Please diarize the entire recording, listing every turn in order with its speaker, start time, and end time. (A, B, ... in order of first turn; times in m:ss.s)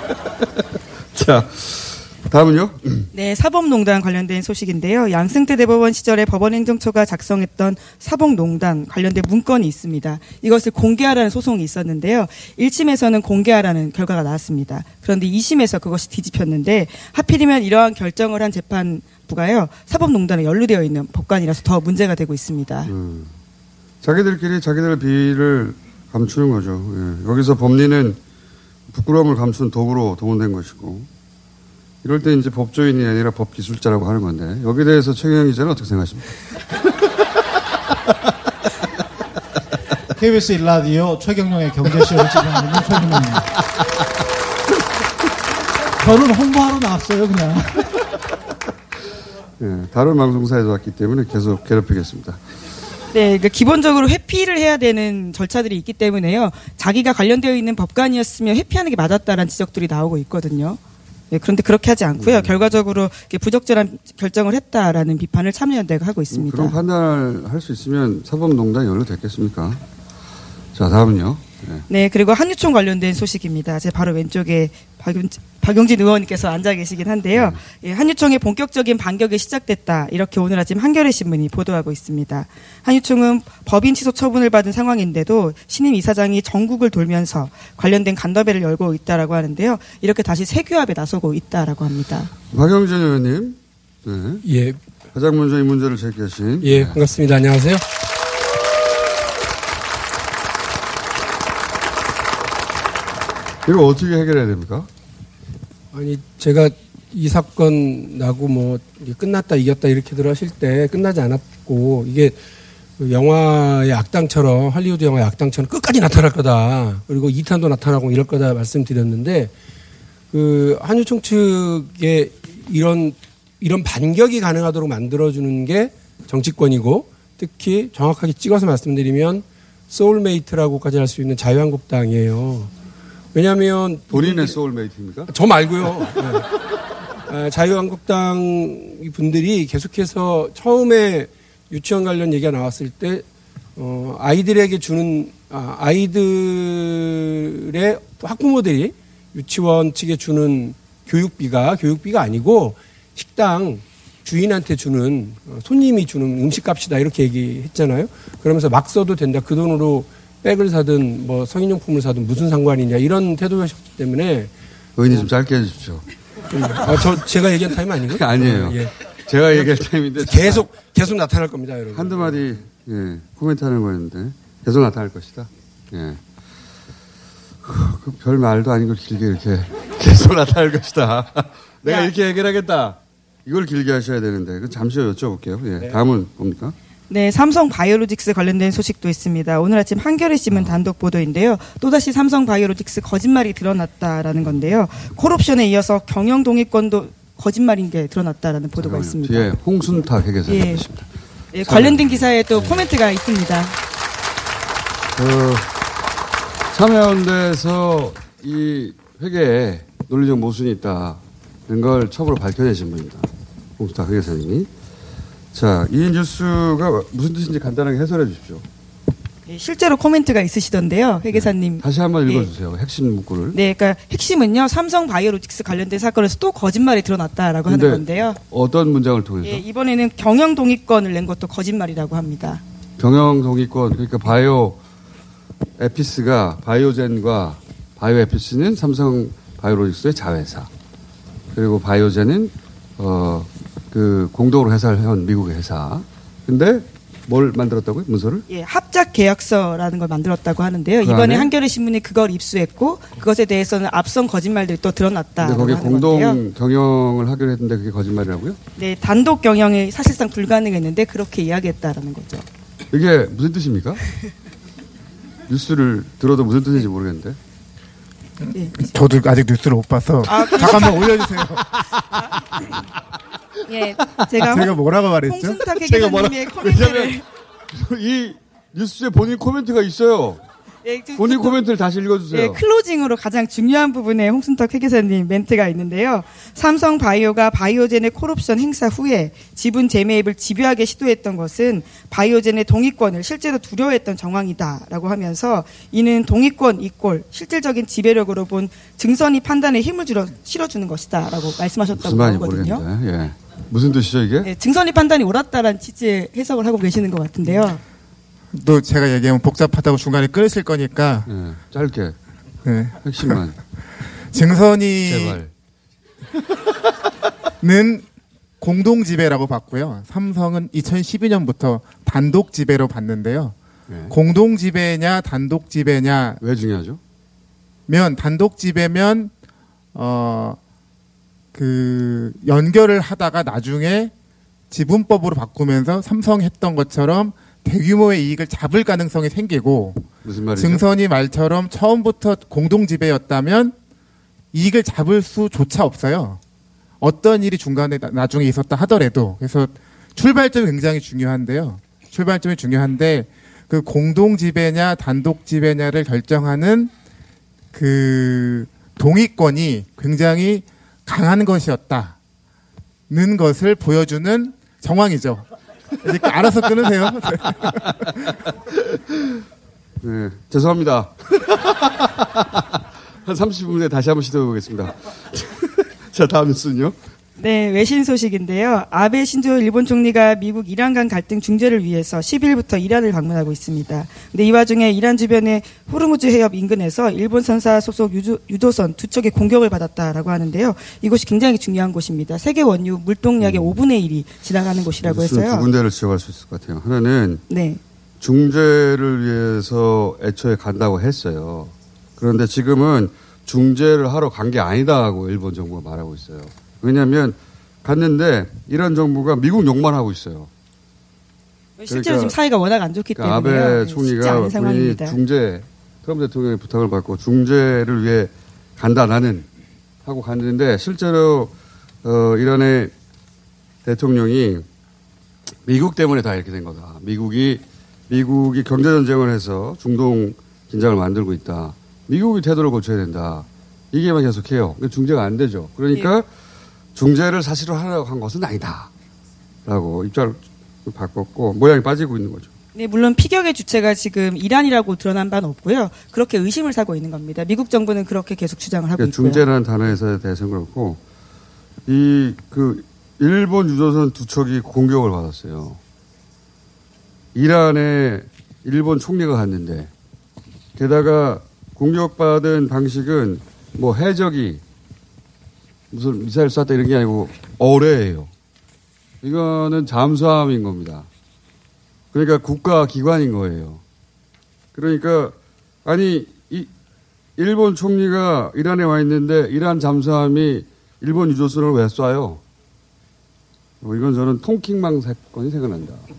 0:01.1-0:03.1 A
0:03.1-0:22.9 B
0:22.9-0:23.3 A
0:24.0-0:28.2 A
0:28.9-0:31.1 A
0:32.0-0:36.3 A
0:40.2-0:43.5 C
0:46.0-0:47.9 C
0:49.6-0:52.4 A
0:53.1-1:00.8 B
1:01.3-1:06.8 B
1:02.2-1:02.6 A
1:06.3-1:09.8 A
1:10.7-1:11.9 A
1:11.9-1:32.3 B
1:32.5-1:34.4 A
1:34.4-1:34.8 D
1:35.1-1:37.0 A
1:36.6-1:37.8 D
1:43.6-1:44.9 A
1:45.9-1:52.4 D
1:53.0-1:59.5 D
2:00.3-2:12.7 D
2:13.3-2:14.6 D
2:14.1-2:15.3 A
2:15.3-2:16.5 D
2:17.3-2:23.2 D
2:23.8-2:44.5 D
2:45.0-2:47.1 A
2:46.5-2:48.9 D
2:48.1-2:50.7 A
2:49.5-2:52.6 D
2:51.9-2:56.2 A
2:57.6-3:06.7 A
3:01.8-3:02.1 B
3:07.1-3:19.5 B
3:18.8-3:21.1 A
3:20.5-3:20.8 B
3:21.5-3:23.8 B
3:21.6-3:22.8 A
3:25.1-3:25.7 A
3:26.7-3:33.3 A
3:33.8-3:34.7 A
3:35.5-3:38.6 A
3:39.5-3:42.5 B
3:41.3-3:43.6 A
3:43.5-3:48.4 B
3:47.7-3:49.6 A
3:49.4-3:52.6 B
3:53.0-3:54.8 A
3:55.8-4:00.7 A
4:01.5-4:08.4 A
4:08.5-4:16.4 B
4:11.0-4:11.5 A
4:15.4-4:18.6 A
4:18.8-4:22.4 B
4:22.9-4:24.0 A
4:25.5-4:27.4 A
4:28.5-4:28.9 B
4:28.8-4:31.7 E
4:30.2-4:31.1 B
4:33.7-4:37.2 B
4:34.4-4:36.1 E
4:35.9-4:40.4 A
4:40.8-4:41.6 B
4:41.2-4:42.6 A
4:42.3-5:02.8 B
5:01.9-5:04.5 A
5:04.4-5:07.8 B
5:08.5-5:11.3 E
5:11.3-5:12.1 A
5:12.6-5:13.4 E
5:13.0-5:13.6 A
5:14.0-5:15.4 E
5:15.0-5:15.5 A
5:17.6-5:18.1 E
5:18.6-5:23.6 E
5:23.9-5:24.1 A
5:24.1-5:26.4 E
5:26.4-5:27.0 A
5:27.9-5:29.3 E
5:29.9-5:30.6 E
5:31.5-5:34.1 E
5:34.7-5:43.8 E
5:40.2-5:40.8 A
5:44.5-5:46.4 E
5:47.0-5:56.9 E
5:57.7-6:02.2 E
6:03.1-6:05.5 E
6:06.0-6:08.3 E
6:08.9-6:09.3 A
6:10.0-6:17.0 A
6:17.4-6:35.7 B
6:33.4-6:33.8 A
6:35.0-6:37.4 A
6:37.5-6:37.8 B
6:38.2-6:50.5 A
6:51.8-6:55.2 B
6:51.9-6:52.3 A
6:53.2-6:59.5 A
7:00.0-7:01.5 A
7:02.0-7:02.9 A
7:03.8-7:04.6 A
7:05.6-7:16.3 A
7:16.9-7:18.9 A
7:19.6-7:22.5 A
7:22.7-7:29.4 B
7:29.0-7:31.0 A
7:31.8-7:35.8 A
7:37.3-7:39.9 A
7:40.7-7:44.6 A
7:45.9-7:48.3 A
7:49.2-7:51.1 A
7:52.1-7:53.8 A
7:54.7-7:56.7 A
7:57.4-8:02.4 A
8:03.8-8:06.0 A